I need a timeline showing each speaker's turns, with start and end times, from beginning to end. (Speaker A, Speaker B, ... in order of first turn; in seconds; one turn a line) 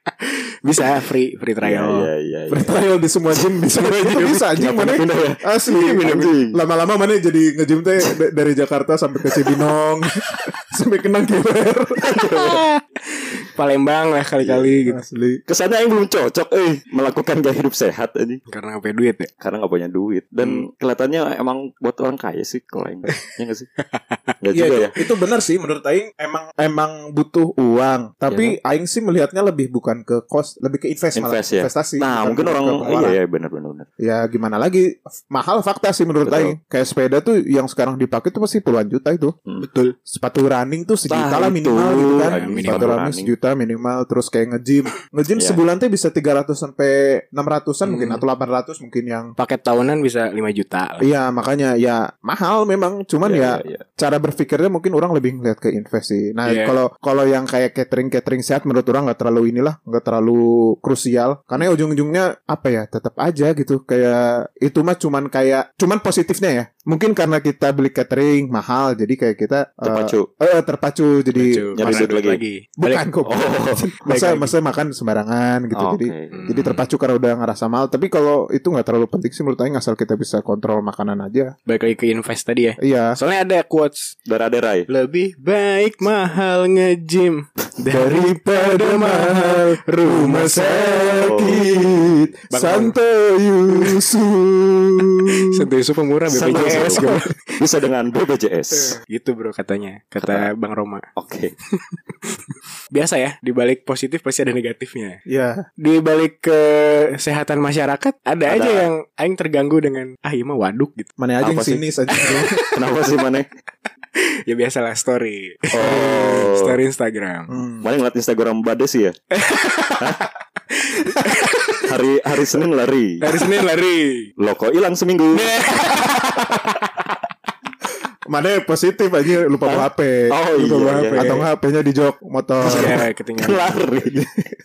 Speaker A: 0.2-2.1
Speaker B: 1.6-2.8
Speaker C: 2.5-12.1
Speaker B: 4.0-6.5
Speaker B: 12.1-12.6
Speaker A: 12.3-15.0
Speaker B: 14.4-14.8
Speaker C: 14.9-15.4
Speaker B: 15.5-18.4
Speaker A: 18.5-19.3
Speaker B: 19.4-23.7
Speaker B: 24.4-24.9
Speaker C: 24.5-33.2
Speaker B: 28.3-28.6
Speaker B: 31.1-33.9
Speaker C: 34.0-39.4
Speaker B: 36.2-36.6
Speaker A: 39.6-39.9
Speaker C: 40.1-49.4
Speaker B: 41.1-43.3
Speaker A: 42.2-42.9
Speaker B: 45.4-45.6
Speaker A: 47.9-48.2
Speaker A: 49.4-51.1
Speaker C: 51.0-72.1
Speaker B: 53.2-53.8
Speaker A: 56.4-56.8
Speaker B: 69.8-70.3
Speaker A: 71.3-73.1
Speaker B: 71.8-72.4
Speaker C: 72.8-81.5
Speaker B: 73.3-73.8
Speaker A: 74.0-74.5
Speaker B: 75.7-76.4
Speaker A: 76.3-76.8
Speaker A: 81.7-84.1
Speaker C: 82.8-83.2
Speaker B: 84.3-84.9
Speaker A: 84.9-91.3
Speaker C: 87.9-95.5
Speaker B: 91.1-91.7
Speaker A: 92.5-92.9
Speaker A: 93.7-94.0
Speaker A: 95.4-97.6
Speaker B: 96.3-99.0
Speaker A: 98.7-101.1
Speaker B: 100.2-100.5
Speaker B: 101.2-101.5
Speaker A: 102.9-105.2
Speaker C: 105.3-105.7
Speaker A: 105.8-111.1
Speaker B: 108.5-108.9
Speaker C: 111.2-112.5
Speaker B: 111.4-111.8
Speaker A: 112.1-112.8
Speaker B: 112.7-113.5
Speaker A: 114.2-117.5
Speaker B: 115.7-116.8
Speaker C: 117.5-117.9
Speaker B: 117.8-119.2
Speaker A: 119.3-121.9
Speaker B: 120.0-120.2
Speaker B: 121.8-123.2
Speaker A: 123.2-124.3
Speaker B: 124.4-125.6
Speaker A: 125.3-126.8
Speaker C: 128.3-130.3
Speaker B: 129.7-131.4
Speaker A: 130.6-131.4
Speaker C: 131.1-133.0
Speaker A: 132.6-133.8
Speaker B: 132.7-134.4